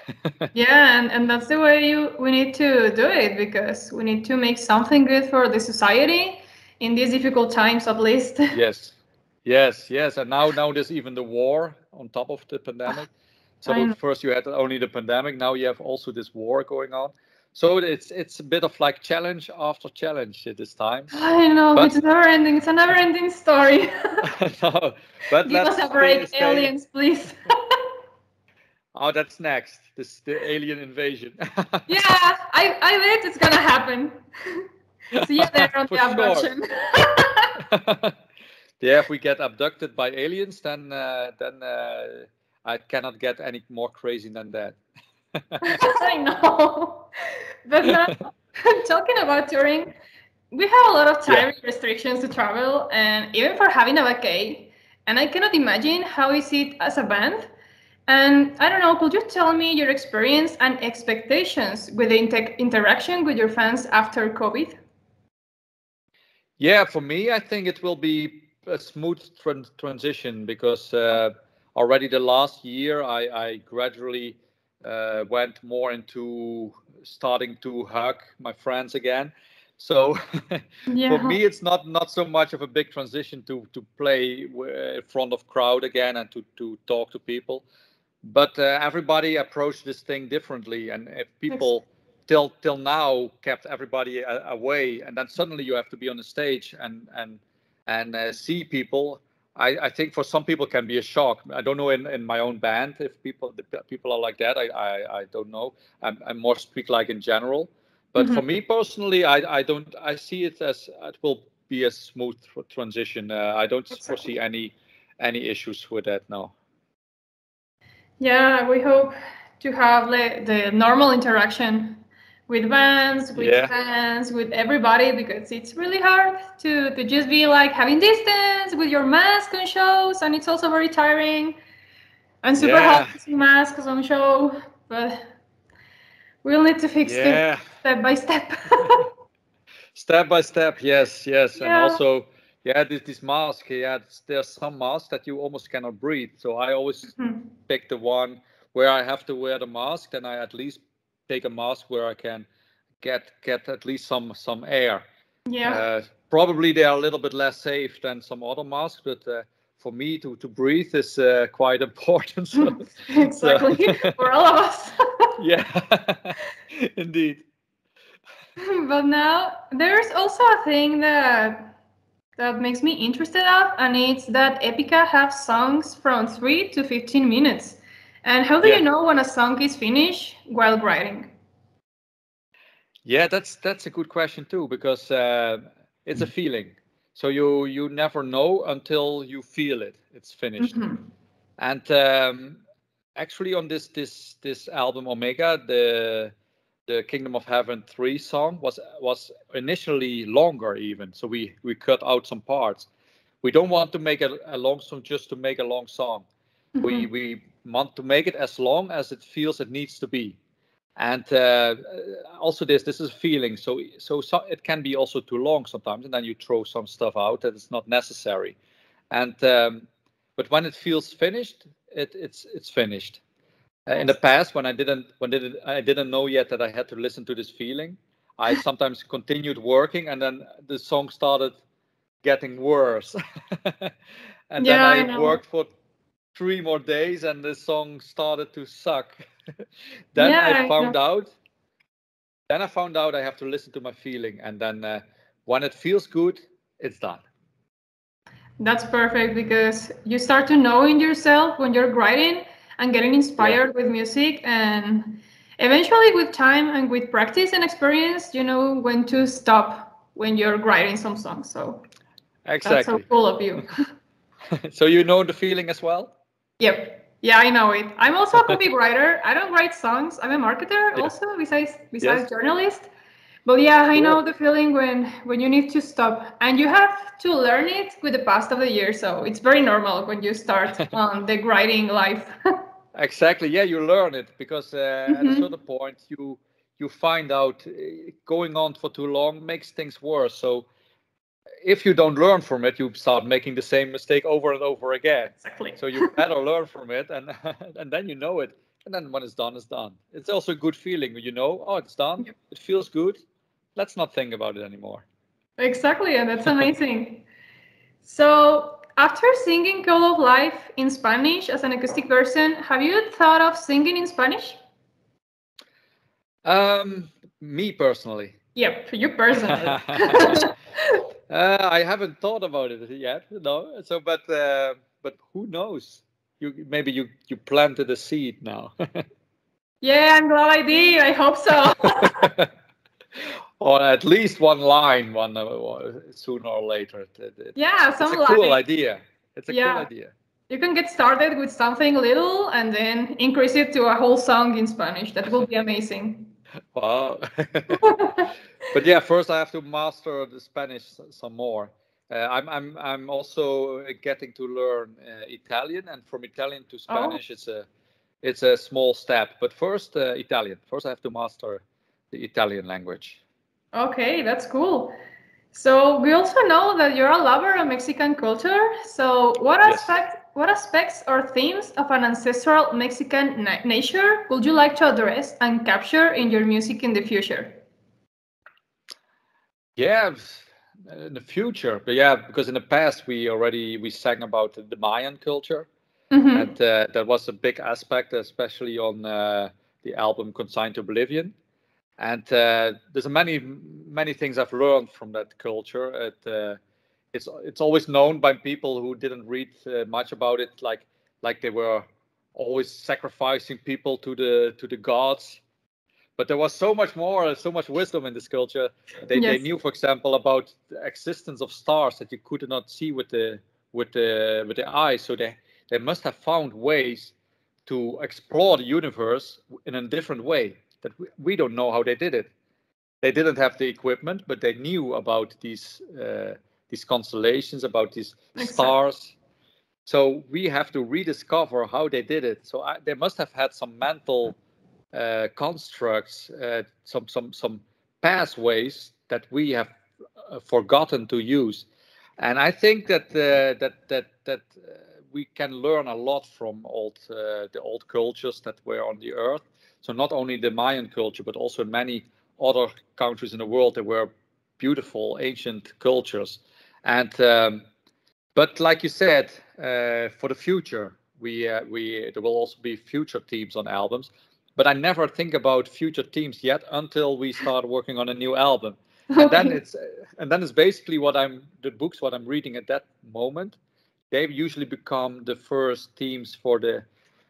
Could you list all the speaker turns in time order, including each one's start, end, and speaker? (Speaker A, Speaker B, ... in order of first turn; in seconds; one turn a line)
Speaker A: 0.5-8.5
Speaker B: 8.5-13.1
Speaker B: 13.6-21.1
Speaker A: 13.7-13.9
Speaker A: 21.1-24.3
Speaker B: 24.2-26.7
Speaker A: 25.4-27.8
Speaker B: 28.9-31.9
Speaker A: 31.9-37.5
Speaker B: 35.1-36.5
Speaker B: 37.6-38.1
Speaker B: 38.8-44.8
Speaker B: 45.5-45.8
Speaker A: 45.6-49.9
Speaker B: 47.8-48.2
Speaker A: 50.5-57.5
Speaker A: 58.1-64.8
Speaker B: 66.6-87.6
Speaker A: 80.9-81.4
Speaker B: 88.2-116.5
Speaker A: 108.2-108.4
Speaker A: 113.9-114.3
Speaker A: 118.2-131.6
Speaker B: 123.3-123.7
Speaker A: 132.4-135.3
Speaker B: 132.6-133.1
Speaker A: 136.4-139.1
Speaker B: 137.0-137.7
Speaker B: 139.9-147.1
Speaker A: 141.6-142.0
Speaker A: 147.2-147.4
Speaker B: 147.7-152.5
Speaker B: 153.0-155.0
Speaker A: 155.5-155.8
Speaker B: 155.6-164.1
Speaker A: 162.6-165.3
Speaker B: 165.4-167.4
Speaker A: 168.6-171.7
Speaker A: 172.4-181.3
Speaker B: 183.0-190.8
Speaker A: 190.6-191.1
Speaker B: 191.6-192.6
Speaker B: 193.2-196.3
Speaker B: 196.9-202.9
Speaker B: 203.4-206.2
Speaker A: 206.8-207.1
Speaker B: 206.8-210.4
Speaker B: 211.0-218.6
Speaker B: 219.1-219.8
Speaker B: 220.4-223.2
Speaker B: 223.8-231.6
Speaker B: 232.2-233.9
Speaker B: 234.5-235.7
Speaker A: 234.6-235.4
Speaker B: 236.3-239.2
Speaker B: 240.1-241.3
Speaker A: 240.2-240.9
Speaker B: 242.5-247.2
Speaker A: 248.6-261.8
Speaker B: 262.4-263.0
Speaker A: 262.6-263.8
Speaker B: 264.7-266.1
Speaker A: 266.6-272.9
Speaker A: 273.4-282.3
Speaker B: 282.9-290.7
Speaker A: 285.1-285.4
Speaker B: 291.6-303.2
Speaker A: 295.4-296.1
Speaker B: 303.8-305.0
Speaker A: 305.6-307.2
Speaker A: 308.0-314.6
Speaker B: 316.4-318.4
Speaker A: 318.5-321.0
Speaker B: 319.5-320.5
Speaker B: 321.3-329.0
Speaker A: 329.8-332.3
Speaker B: 331.9-332.5
Speaker B: 333.6-340.1
Speaker A: 337.6-338.6
Speaker A: 339.5-339.9
Speaker A: 340.5-346.3
Speaker B: 346.7-347.8
Speaker A: 347.7-348.3
Speaker B: 348.7-357.6
Speaker A: 356.9-357.2
Speaker B: 358.2-363.2
Speaker A: 363.7-364.9
Speaker A: 365.5-377.6
Speaker B: 369.6-369.9
Speaker B: 379.8-385.7
Speaker A: 386.1-386.5
Speaker B: 386.3-391.3
Speaker B: 392.0-396.6
Speaker B: 397.1-405.4
Speaker B: 406.2-417.1
Speaker A: 409.1-409.4
Speaker B: 417.6-422.3
Speaker B: 423.0-429.1
Speaker A: 428.4-428.7
Speaker B: 429.9-434.4
Speaker B: 434.9-439.7
Speaker B: 440.3-441.6
Speaker B: 442.2-457.6
Speaker B: 458.3-473.6
Speaker A: 469.1-469.6
Speaker B: 474.1-476.9